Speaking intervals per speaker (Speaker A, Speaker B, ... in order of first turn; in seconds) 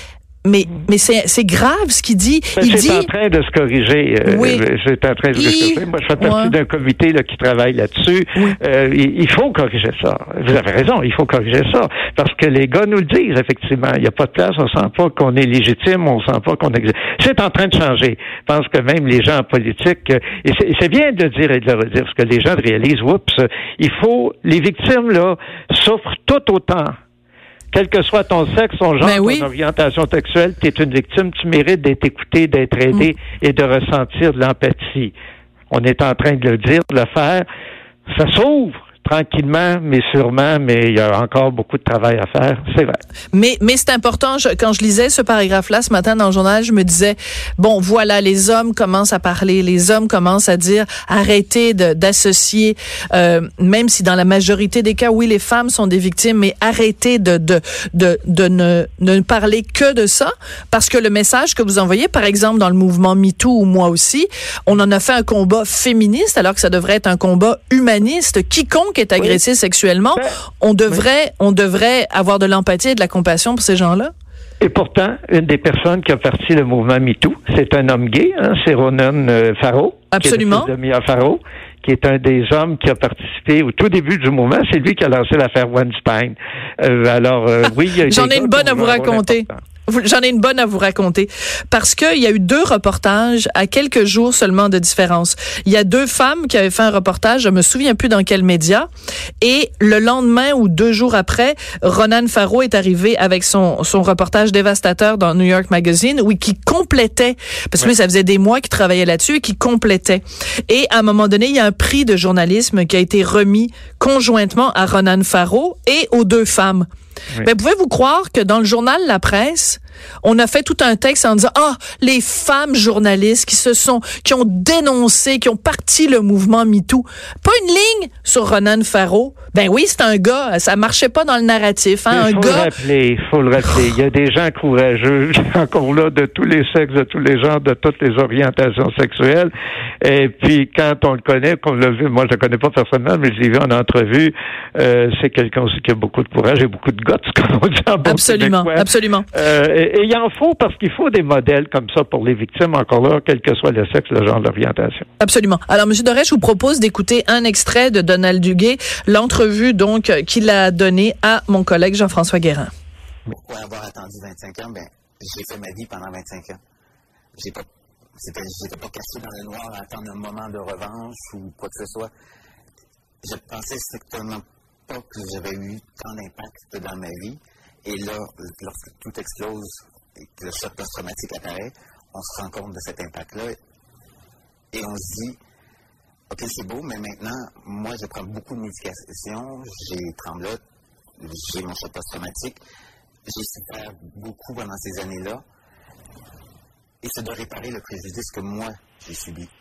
Speaker A: 0.4-3.1, 4.2-4.6, 5.3-6.5, 29.0-29.5, 43.3-74.1, 80.1-80.7, 88.0-98.9, 99.4-116.9, 117.4-132.7, 148.0-149.2, 155.2-162.7
Speaker B: 2.6-26.9, 27.7-35.1, 35.7-37.5, 38.1-43.0, 74.6-89.6, 132.1-155.1
Speaker C: 163.3-166.6, 167.3-172.1, 173.2-183.6, 184.7-185.4, 186.3-190.6, 191.2-192.6, 193.2-195.4, 197.0-199.5